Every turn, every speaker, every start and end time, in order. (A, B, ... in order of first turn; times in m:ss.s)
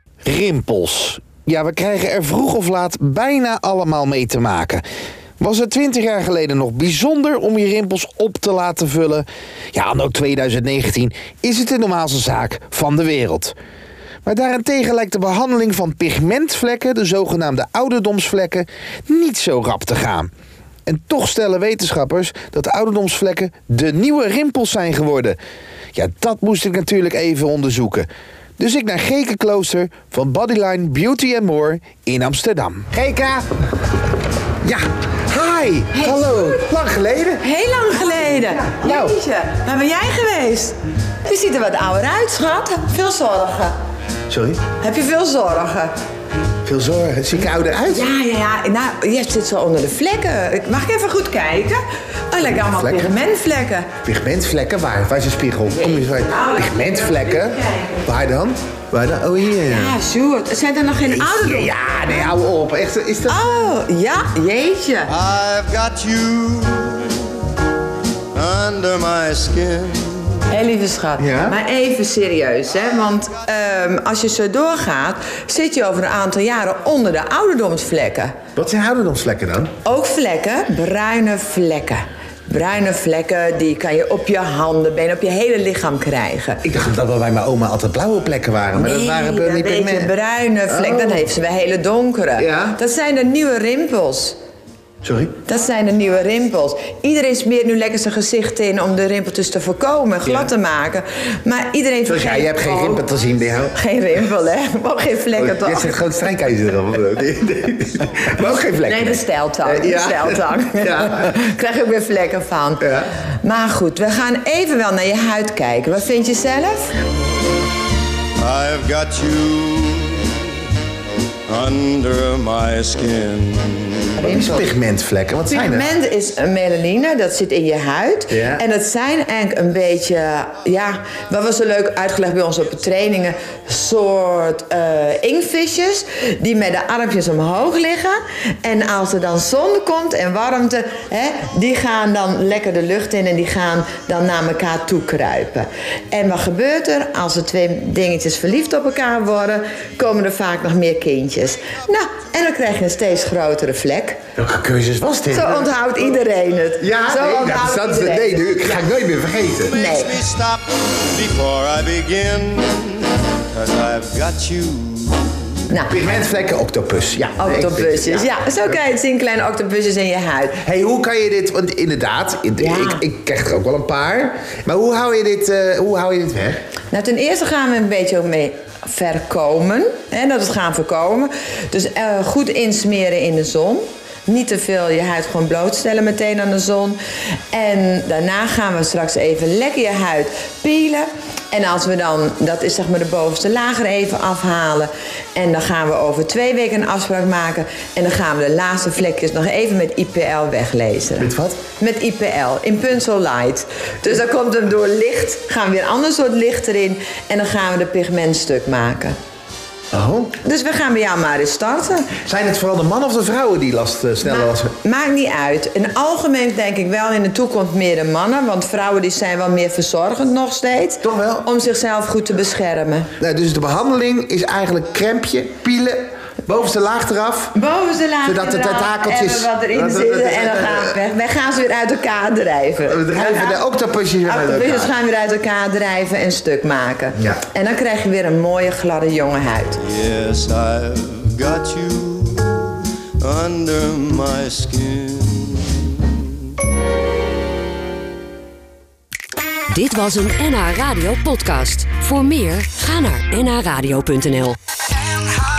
0:00.2-0:04.8 A
0:05.4-0:13.5 A
0:14.2-0:20.3 A
0:20.8-0:25.4 A
0:25.9-0:28.1 A
0:28.6-0:33.4 A
0:34.6-0:37.4 A
0:35.9-0:36.6 B
0:37.4-0:43.7 B
0:38.8-0:39.2 A
0:44.3-0:44.6 A
0:44.8-0:45.9 B
0:46.6-0:48.1 A
0:47.9-0:53.9 B
0:52.4-0:53.1 A
0:54.0-1:00.0 A
0:55.8-0:58.0 B
0:59.6-1:02.3 B
1:01.1-1:03.4 A
1:03.3-1:05.1 B
1:05.1-1:07.4 C
1:08.3-1:10.4 C
1:10.5-1:18.4 B
1:11.2-1:11.6 A
1:18.5-1:19.7 A
1:19.8-1:26.6 B
1:26.6-1:30.1 A
1:28.7-1:34.4 B
1:30.7-1:31.2 A
1:32.4-1:32.8 A
1:35.0-1:35.3 A
1:35.4-1:43.0 B
1:42.0-1:43.7 A
1:43.7-1:46.0 B
1:45.4-1:51.3 A
1:48.8-1:52.9 B
1:52.8-1:53.1 A
1:53.4-1:56.9 B
1:58.4-2:00.5 C
2:01.5-2:04.0 C
2:04.2-2:04.7 B
2:04.2-2:05.9 A
2:05.5-2:34.2 B
2:08.3-2:08.6 A
2:34.4-2:35.7 A
2:35.3-2:38.8 B
2:36.8-2:39.7 A
2:39.7-2:45.5 C
2:39.7-2:40.1 B
2:45.7-2:46.0 B
2:45.9-2:48.8 A
2:47.4-2:50.6 B
2:50.6-2:56.6 A
2:52.6-2:53.0 B
2:56.9-3:07.0 B
3:07.5-3:29.2 B
3:21.2-3:21.6 A
3:29.9-3:30.4 A
3:30.4-3:32.2 B
3:32.2-3:34.7 A
3:34.2-3:43.1 B
3:41.0-3:41.5 A
3:43.2-3:47.6 A
3:47.5-3:53.6 B
3:48.2-3:51.0 A
3:52.8-3:54.9 A
3:54.2-3:59.8 B
3:59.8-4:06.2 C
4:09.7-4:14.6 D